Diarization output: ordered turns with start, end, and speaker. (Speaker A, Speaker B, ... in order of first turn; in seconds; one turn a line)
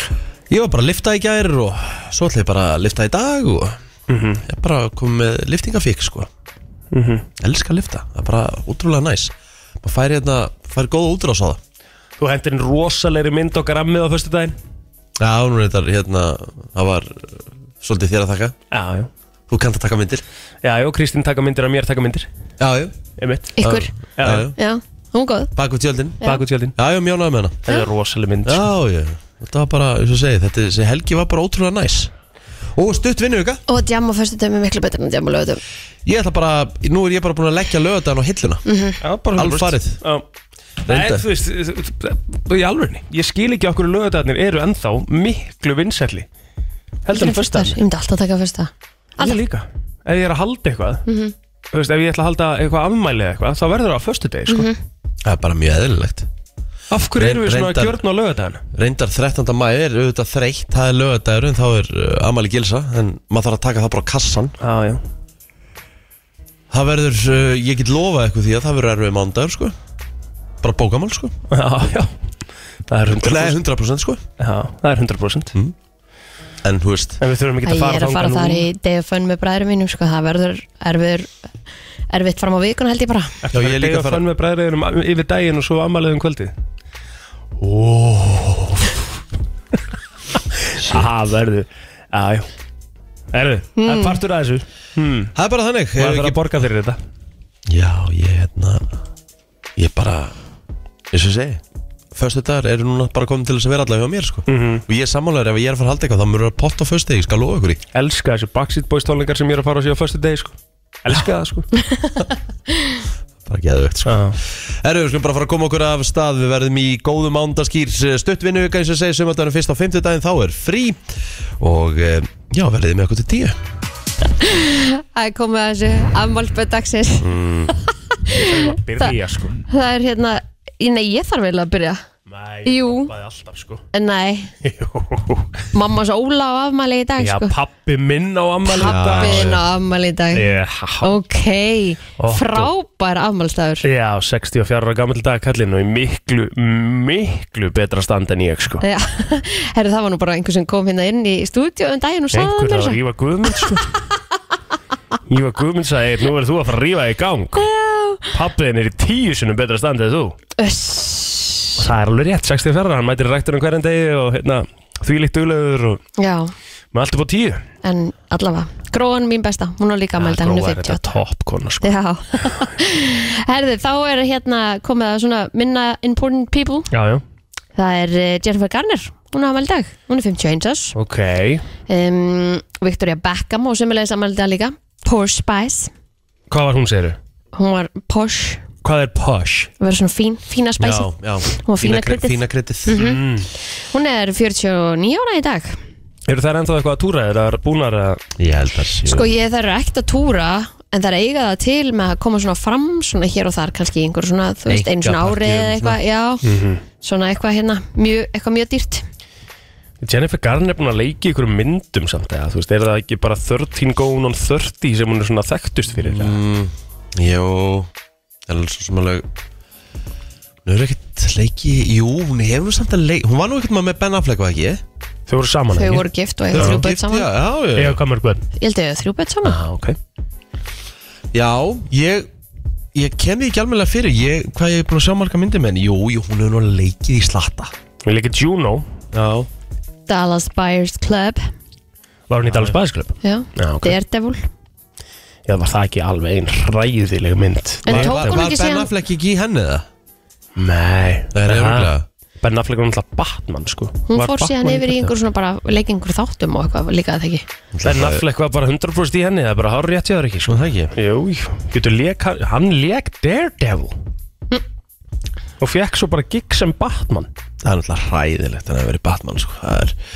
Speaker A: 0.5-3.8
Speaker B: 4.1-4.4
Speaker A: 4.5-6.3
Speaker B: 6.9-7.2
Speaker A: 7.4-11.6
Speaker B: 12.2-14.6
Speaker A: 15.2-18.5
Speaker B: 18.7-19.1
Speaker A: 19.5-20.2
Speaker B: 20.6-22.3
Speaker A: 22.6-22.9
Speaker B: 23.2-24.5
Speaker C: 23.6-23.9
Speaker A: 23.6-24.5
Speaker C: 24.5-25.5
Speaker A: 25.6-27.6
Speaker B: 26.2-26.7
Speaker B: 27.6-28.7
Speaker A: 28.4-32.1
Speaker A: 32.7-33.6
Speaker C: 33.7-35.6
Speaker A: 36.0-38.6
Speaker C: 38.7-39.0
Speaker B: 39.0-40.2
Speaker A: 39.3-40.0
Speaker B: 40.9-46.3
Speaker A: 40.9-41.2
Speaker B: 47.0-47.8
Speaker C: 47.1-49.4
Speaker B: 49.2-51.0
Speaker C: 51.0-51.3
Speaker B: 51.7-54.7
Speaker C: 54.5-54.8
Speaker A: 55.2-56.3
Speaker B: 56.9-58.6
Speaker A: 57.1-58.0
Speaker A: 58.7-64.5
Speaker B: 64.6-65.0
Speaker A: 66.7-69.7
Speaker A: 70.6-71.3
Speaker B: 71.5-72.1
Speaker B: 72.9-73.6
Speaker A: 73.1-74.2
Speaker B: 74.4-75.5
Speaker A: 76.6-77.2
Speaker B: 77.2-78.7
Speaker C: 77.6-81.3
Speaker C: 82.1-83.3
Speaker B: 83.4-86.5
Speaker A: 83.5-84.2
Speaker B: 87.6-89.0
Speaker B: 90.3-92.5
Speaker B: 93.3-95.3
Speaker C: 93.8-94.2
Speaker A: 95.3-96.4
Speaker B: 96.0-97.0
Speaker A: 97.7-98.9
Speaker A: 99.8-100.3
Speaker A: 101.1-101.6
Speaker A: 102.1-107.8
Speaker B: 104.5-104.8
Speaker B: 107.9-111.7
Speaker A: 113.4-123.6
Speaker B: 114.0-114.4
Speaker C: 124.4-127.3
Speaker A: 127.2-127.7
Speaker C: 128.2-129.1
Speaker B: 128.3-129.6
Speaker C: 129.7-132.0
Speaker B: 132.3-133.8
Speaker C: 132.6-133.1
Speaker C: 133.9-134.5
Speaker B: 134.6-135.6
Speaker C: 135.7-137.5
Speaker B: 137.2-139.6
Speaker C: 138.7-140.5
Speaker A: 138.8-139.6
Speaker B: 140.3-141.1
Speaker C: 141.0-143.8
Speaker B: 142.2-142.7
Speaker B: 143.8-148.8
Speaker C: 148.8-153.0
Speaker B: 152.3-153.9
Speaker B: 155.3-157.7
Speaker C: 157.5-158.3
Speaker B: 158.3-160.3
Speaker C: 160.6-161.8
Speaker B: 161.8-166.0
Speaker C: 166.2-166.5
Speaker B: 166.9-167.6
Speaker C: 167.8-171.1
Speaker B: 170.2-171.9
Speaker C: 171.8-176.9
Speaker B: 176.9-177.2
Speaker C: 177.8-180.9
Speaker B: 180.9-181.6
Speaker C: 181.9-185.9
Speaker B: 186.5-187.2
Speaker C: 187.5-188.6
Speaker B: 188.8-189.7
Speaker C: 189.8-193.2
Speaker A: 190.8-193.0
Speaker B: 192.9-193.5
Speaker C: 193.9-195.8
Speaker B: 196.3-198.2
Speaker A: 198.4-199.3
Speaker C: 199.1-206.4
Speaker A: 204.7-206.0
Speaker B: 206.4-206.8
Speaker C: 207.0-209.0
Speaker B: 210.0-216.4
Speaker A: 215.9-217.9
Speaker A: 218.5-219.3
Speaker A: 220.6-224.8
Speaker B: 225.3-226.8
Speaker C: 225.7-227.3
Speaker A: 226.5-228.0
Speaker B: 227.8-228.4
Speaker C: 228.6-229.6
Speaker B: 229.4-230.0
Speaker A: 231.3-232.3
Speaker A: 232.9-237.7
Speaker B: 238.1-238.9
Speaker A: 239.1-239.5
Speaker C: 240.1-241.4
Speaker B: 242.3-243.9
Speaker C: 243.2-244.5
Speaker B: 245.5-248.4
Speaker C: 247.8-248.9
Speaker A: 247.9-249.8
Speaker B: 250.6-255.1
Speaker A: 251.3-252.1
Speaker C: 254.1-257.4
Speaker A: 257.7-258.2
Speaker B: 257.8-263.9
Speaker A: 260.5-260.9
Speaker B: 265.6-267.3
Speaker A: 267.6-269.9